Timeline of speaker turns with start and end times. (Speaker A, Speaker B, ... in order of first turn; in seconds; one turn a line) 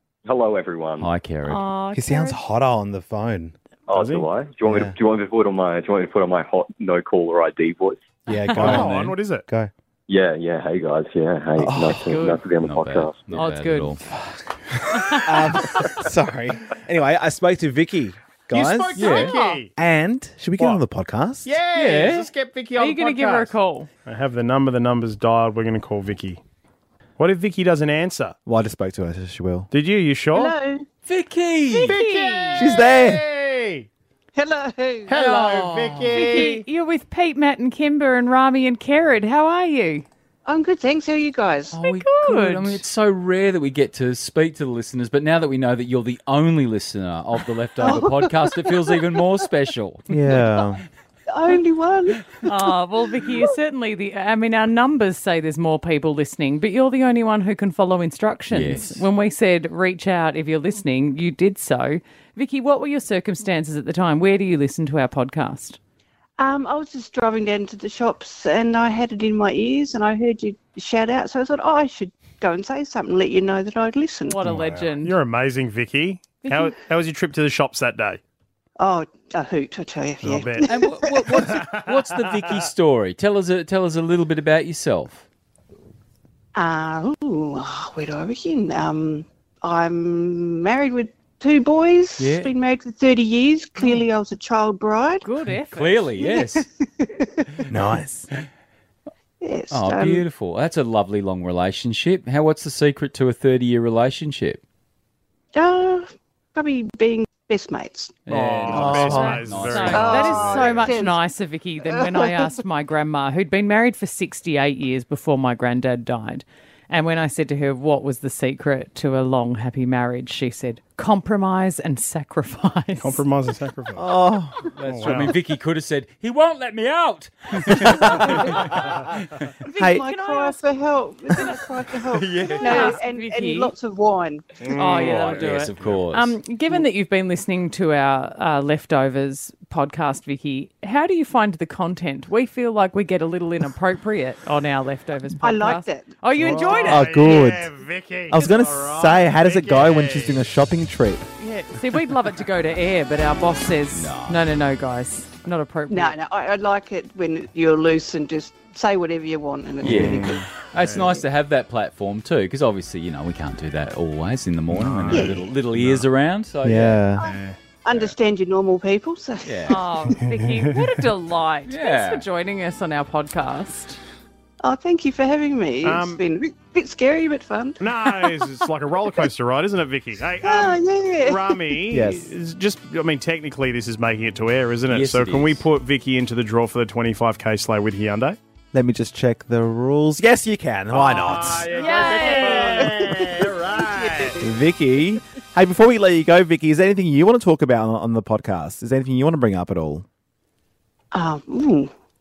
Speaker A: 0.2-1.1
Speaker B: 1.0-1.6
Speaker C: 1.4-2.4
Speaker D: 1.9-3.5
Speaker A: 3.9-8.1
Speaker E: 3.9-4.3
Speaker D: 4.6-5.0
Speaker D: 8.3-9.7
Speaker E: 8.5-9.4
Speaker B: 8.6-8.9
Speaker A: 10.1-13.3
Speaker D: 11.6-12.1
Speaker C: 12.0-12.4
Speaker B: 12.6-14.0
Speaker C: 13.3-14.0
Speaker C: 14.9-15.9
Speaker D: 15.1-21.5
Speaker E: 18.5-19.7
Speaker B: 19.0-19.4
Speaker E: 21.4-23.5
Speaker B: 21.7-22.3
Speaker C: 22.8-23.9
Speaker E: 24.0-26.4
Speaker E: 27.2-28.4
Speaker D: 28.4-29.7
Speaker E: 29.7-30.5
Speaker F: 30.3-30.8
Speaker B: 31.1-32.0
Speaker C: 31.7-32.7
Speaker E: 31.8-33.9
Speaker D: 32.5-33.2
Speaker F: 34.3-35.1
Speaker E: 35.1-36.6
Speaker B: 35.1-36.4
Speaker C: 36.1-40.0
Speaker F: 40.5-41.8
Speaker B: 41.7-50.2
Speaker C: 41.8-42.8
Speaker F: 47.8-49.0
Speaker D: 50.1-50.8
Speaker F: 51.3-52.5
Speaker C: 52.4-65.8
Speaker B: 58.5-59.0
Speaker F: 66.4-74.4
Speaker C: 74.2-75.2
Speaker E: 74.4-78.2
Speaker F: 78.8-81.3
Speaker E: 80.2-82.6
Speaker B: 80.6-85.2
Speaker F: 86.5-95.2
Speaker B: 92.2-92.5
Speaker C: 95.2-96.1
Speaker B: 95.7-96.7
Speaker F: 96.2-97.6
Speaker D: 97.7-98.2
Speaker F: 99.4-100.2
Speaker B: 99.7-104.6
Speaker F: 105.5-108.2
Speaker B: 108.2-110.5
Speaker E: 108.3-110.7
Speaker D: 108.7-109.4
Speaker C: 108.9-123.2
Speaker F: 109.9-111.2
Speaker F: 111.8-112.5
Speaker E: 123.0-124.0
Speaker D: 124.0-124.6
Speaker B: 124.7-129.3
Speaker E: 124.8-125.3
Speaker F: 128.2-128.6
Speaker C: 129.6-130.7
Speaker F: 129.6-134.6
Speaker C: 131.3-131.7
Speaker B: 132.1-133.0
Speaker C: 132.5-133.7
Speaker E: 134.6-135.9
Speaker C: 134.6-147.2
Speaker B: 134.9-136.4
Speaker F: 145.4-146.2
Speaker E: 146.4-150.4
Speaker D: 146.4-147.7
Speaker D: 148.3-151.2
Speaker C: 151.4-156.2
Speaker B: 153.9-154.4
Speaker F: 155.9-160.4
Speaker B: 159.8-167.0
Speaker E: 159.8-161.2
Speaker E: 164.7-166.0
Speaker F: 165.1-165.5
Speaker D: 166.6-167.2
Speaker F: 167.2-170.1
Speaker E: 167.2-168.1
Speaker B: 169.4-169.8
Speaker C: 169.7-174.0
Speaker E: 170.2-170.8
Speaker B: 171.7-172.2
Speaker F: 174.6-178.4
Speaker E: 175.8-176.2
Speaker E: 177.8-188.4
Speaker F: 180.4-181.8
Speaker D: 181.9-182.3
Speaker B: 184.9-185.7
Speaker D: 188.7-191.7
Speaker E: 190.9-194.4
Speaker C: 191.7-192.9
Speaker F: 192.0-194.4
Speaker D: 194.4-200.1
Speaker F: 201.1-201.9